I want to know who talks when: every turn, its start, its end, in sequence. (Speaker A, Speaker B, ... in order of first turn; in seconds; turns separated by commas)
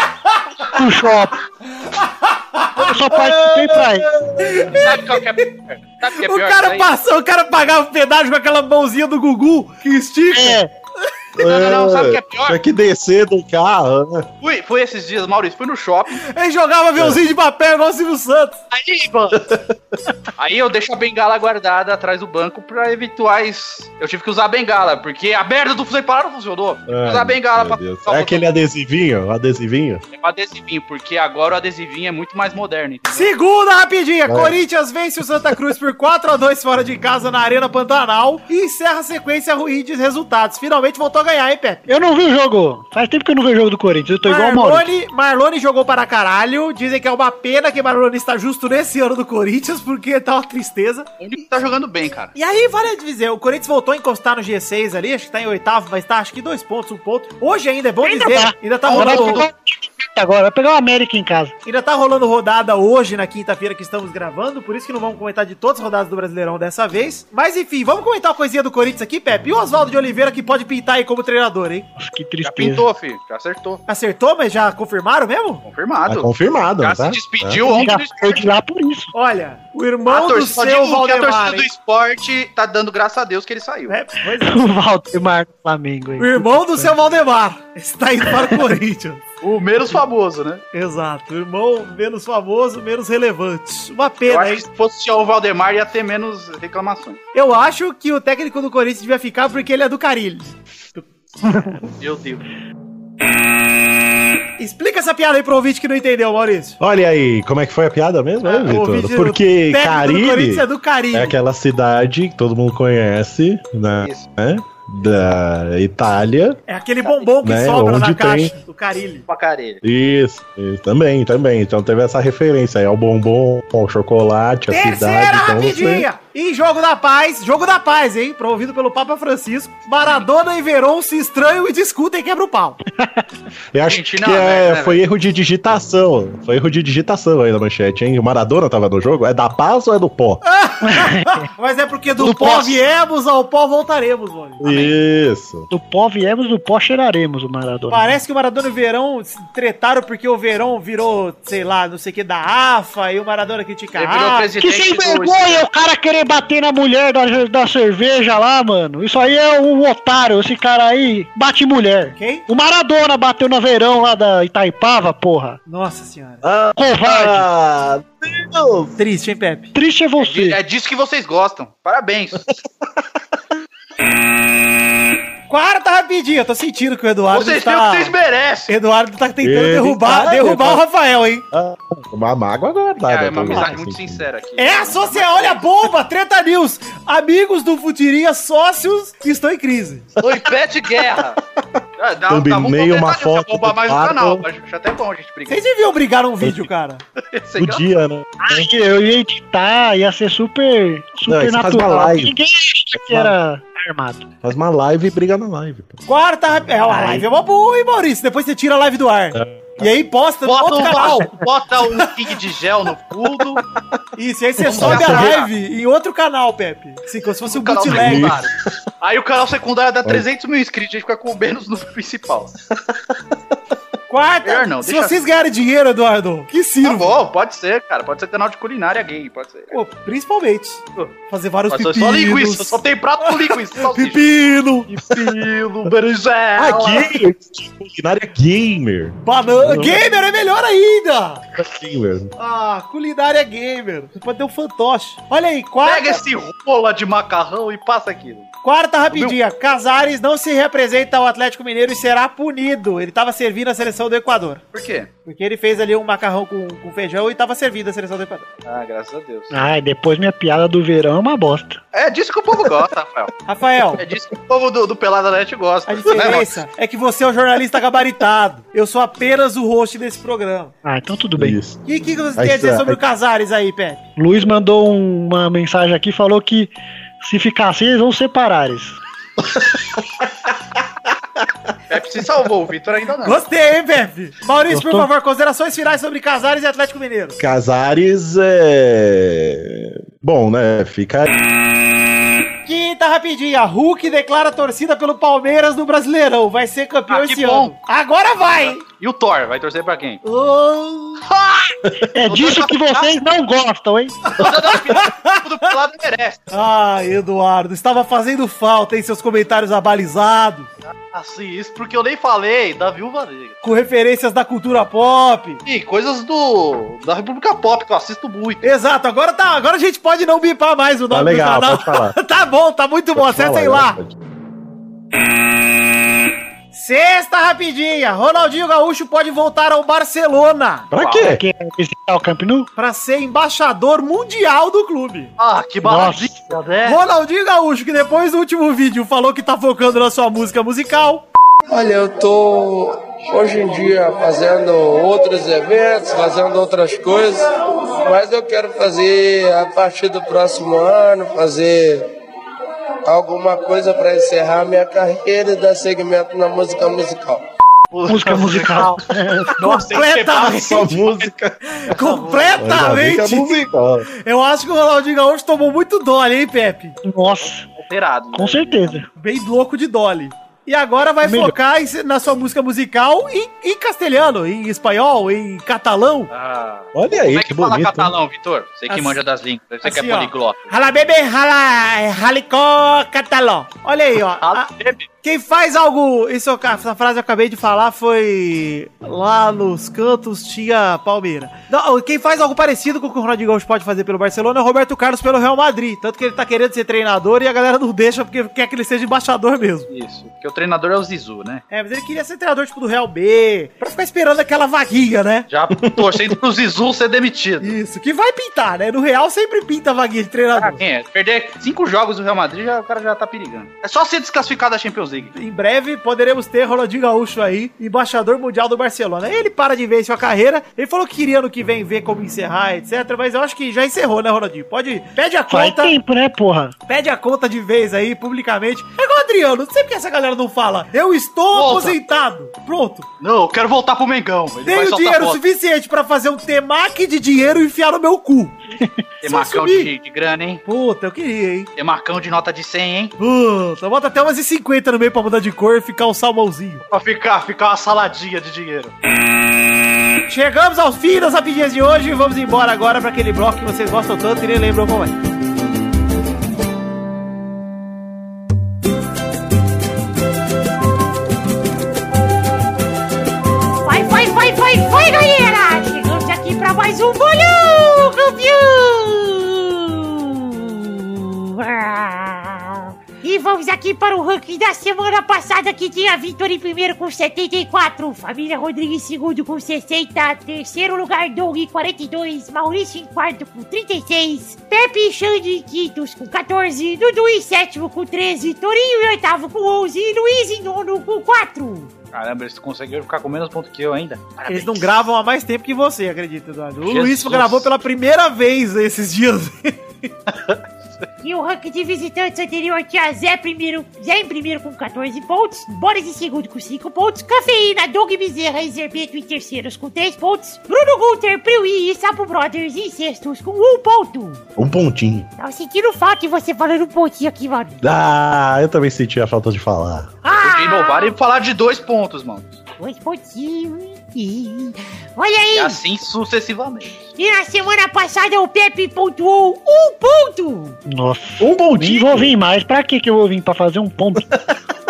Speaker A: 0.7-1.4, Speaker B: 2.0-3.3, Speaker A: 2.7-4.1, Speaker C: 3.3-4.6, Speaker B: 4.4-5.3, Speaker D: 4.8-6.9, Speaker B: 6.2-10.6, Speaker A: 10.3-10.7, Speaker D: 11.4-12.6, Speaker C: 11.4-14.3, Speaker D: 14.4-16.2, Speaker B: 16.1-18.6, Speaker D: 18.7-19.4, Speaker C: 19.3-19.7, Speaker D: 20.4-28.5, Speaker C: 26.9-30.0, Speaker D: 30.1-33.3, Speaker B: 33.1-41.9, Speaker C: 34.2-34.5, Speaker A: 41.9-44.9, Speaker B: 44.2-51.1, Speaker D: 51.2-52.3, Speaker B: 52.3-59.5, Speaker A: 58.0-61.5, Speaker D: 58.8-59.5, Speaker B: 61.6-71.9, Speaker A: 72.0-72.8, Speaker D: 72.4-73.8, Speaker B: 73.9-75.6, Speaker D: 75.6-78.5, Speaker C: 76.1-77.6, Speaker A: 77.7-79.1, Speaker B: 79.1-81.7, Speaker D: 80.1-83.9, Speaker B: 83.9-84.7, Speaker A: 84.4-86.9, Speaker B: 86.2-89.2, Speaker D: 89.4-90.6, Speaker B: 90.7-94.6, Speaker D: 94.2-97.2, Speaker B: 97.3-101.0, Speaker D: 102.0-102.4, Speaker B: 104.6-106.8, Speaker C: 106.8-116.6, Speaker D: 108.4-108.7, Speaker B: 108.6-111.3, Speaker D: 114.0-114.3, Speaker B: 116.7-119.2, Speaker C: 117.4-118.5, Speaker D: 119.3-119.8, Speaker C: 119.8-126.1, Speaker B: 124.7-132.8, Speaker A: 133.0-133.2, Speaker C: 133.7-140.4, Speaker D: 133.8-135.0, Speaker B: 140.4-144.8, Speaker A: 140.9-141.3, Speaker C: 144.6-145.7, Speaker D: 144.7-144.9, Speaker A: 145.7-148.1, Speaker B: 147.9-154.5, Speaker D: 153.9-155.6, Speaker A: 154.6-165.6, Speaker B: 162.2-162.4, Speaker B: 165.7-166.4, Speaker C: 166.4-168.9, Speaker A: 166.8-167.5, Speaker B: 169.0-169.7, Speaker A: 169.7-170.6, Speaker D: 170.2-172.4, Speaker B: 175.5-178.1, Speaker D: 177.3-178.7, Speaker B: 178.7-181.4, Speaker C: 179.4-180.8, Speaker C: 181.5-184.2, Speaker D: 183.0-185.7, Speaker B: 184.6-190.1, Speaker C: 190.2-194.4, Speaker D: 190.2-191.4, Speaker D: 192.0-195.6, Speaker B: 195.5-197.0, Speaker D: 197.2-197.8, Speaker C: 197.6-198.7, Speaker A: 198.4-204.2, Speaker C: 201.3-202.3, Speaker C: 202.9-203.3, Speaker C: 204.4-206.0, Speaker B: 206.1-211.4, Speaker C: 206.9-207.2, Speaker C: 209.3-209.9, Speaker D: 210.4-213.6, Speaker B: 214.2-218.3, Speaker C: 214.6-215.3, Speaker D: 214.7-215.5, Speaker D: 217.5-222.5, Speaker C: 217.8-218.8, Speaker C: 222.8-223.2, Speaker B: 224.1-227.2, Speaker D: 224.4-225.2, Speaker D: 226.8-229.8, Speaker B: 229.7-235.1, Speaker D: 231.7-234.2, Speaker D: 235.1-237.1, Speaker C: 236.6-240.1, Speaker B: 239.2-241.4, Speaker C: 241.6-242.3, Speaker B: 242.4-246.2, Speaker D: 245.8-248.5, Speaker B: 248.6-254.6, Speaker D: 249.1-249.4, Speaker D: 254.7-255.1, Speaker B: 255.2-258.5, Speaker D: 258.6-259.5, Speaker A: 259.5-261.8, Speaker D: 261.9-263.3, Speaker B: 263.5-264.0, Speaker D: 264.0-266.5, Speaker B: 265.9-270.7, Speaker A: 270.8-271.6, Speaker C: 271.4-271.8, Speaker B: 271.9-274.0, Speaker C: 272.4-273.0, Speaker A: 274.2-279.0, Speaker C: 279.4-280.5, Speaker D: 281.9-283.4, Speaker B: 283.2-287.4, Speaker A: 284.7-285.1, Speaker C: 287.4-291.3, Speaker B: 292.6-298.8, Speaker D: 297.1-297.7, Speaker D: 298.6-300.2, Speaker B: 300.2-301.3, Speaker D: 301.3-301.7, Speaker A: 302.1-304.1, Speaker D: 302.2-303.1, Speaker B: 304.3-305.3, Speaker D: 304.4-306.4, Speaker B: 306.5-310.7, Speaker D: 311.1-313.6, Speaker B: 313.6-315.6, Speaker D: 315.6-318.6, Speaker B: 318.6-323.9, Speaker C: 321.1-322.1, Speaker C: 323.1-324.1, Speaker B: 326.7-330.9, Speaker C: 330.9-331.4, Speaker D: 331.0-331.3, Speaker A: 331.1-332.7, Speaker B: 332.8-335.3, Speaker D: 335.4-337.0, Speaker A: 335.8-336.5, Speaker B: 336.8-341.2, Speaker E: 341.7-352.1, Speaker E: 353.0-357.4, Speaker D: 357.9-358.9, Speaker A: 358.1-359.5, Speaker D: 359.6-361.3, Speaker B: 359.6-360.9, Speaker C: 360.4-361.6, Speaker B: 361.8-363.6, Speaker D: 361.9-362.6, Speaker C: 362.6-364.1, Speaker B: 364.2-366.9, Speaker A: 367.0-367.7, Speaker D: 367.8-369.0, Speaker A: 368.3-369.1, Speaker B: 369.2-376.3, Speaker A: 371.2-371.5, Speaker D: 376.3-380.7, Speaker C: 376.9-378.1, Speaker B: 378.9-379.2, Speaker B: 379.8-384.7, Speaker D: 384.4-385.0, Speaker B: 385.2-399.9, Speaker D: 399.9-401.6, Speaker B: 401.7-405.4, Speaker D: 405.5-407.8, Speaker C: 405.7-406.4, Speaker B: 407.6-410.8, Speaker D: 410.5-415.3, Speaker B: 415.3-425.9, Speaker A: 425.5-426.7, Speaker B: 426.9-433.1, Speaker D: 431.5-432.0, Speaker D: 433.2-435.4, Speaker B: 434.6-439.9, Speaker D: 439.2-440.6, Speaker B: 440.6-441.7, Speaker D: 441.8-443.1, Speaker B: 443.2-446.8, Speaker D: 446.9-448.9, Speaker B: 450.3-455.1, Speaker F: 463.8-491.9, Speaker D: 492.1-494.9, Speaker B: 494.5-500.1, Speaker D: 496.9-497.7, Speaker D: 500.3-501.0, Speaker F: 501.2-514.4, Speaker C: 514.6-515.3, Speaker F: 515.4-517.8, Speaker C: 517.8-520.1, Speaker F: 520.2-521.1, Speaker D: 520.4-522.6, Speaker F: 522.8-525.8, Speaker D: 525.5-527.1, Speaker F: 527.2-530.8, Speaker A: 530.9-534.3, Speaker C: 531.4-532.3, Speaker C: 534.3-534.6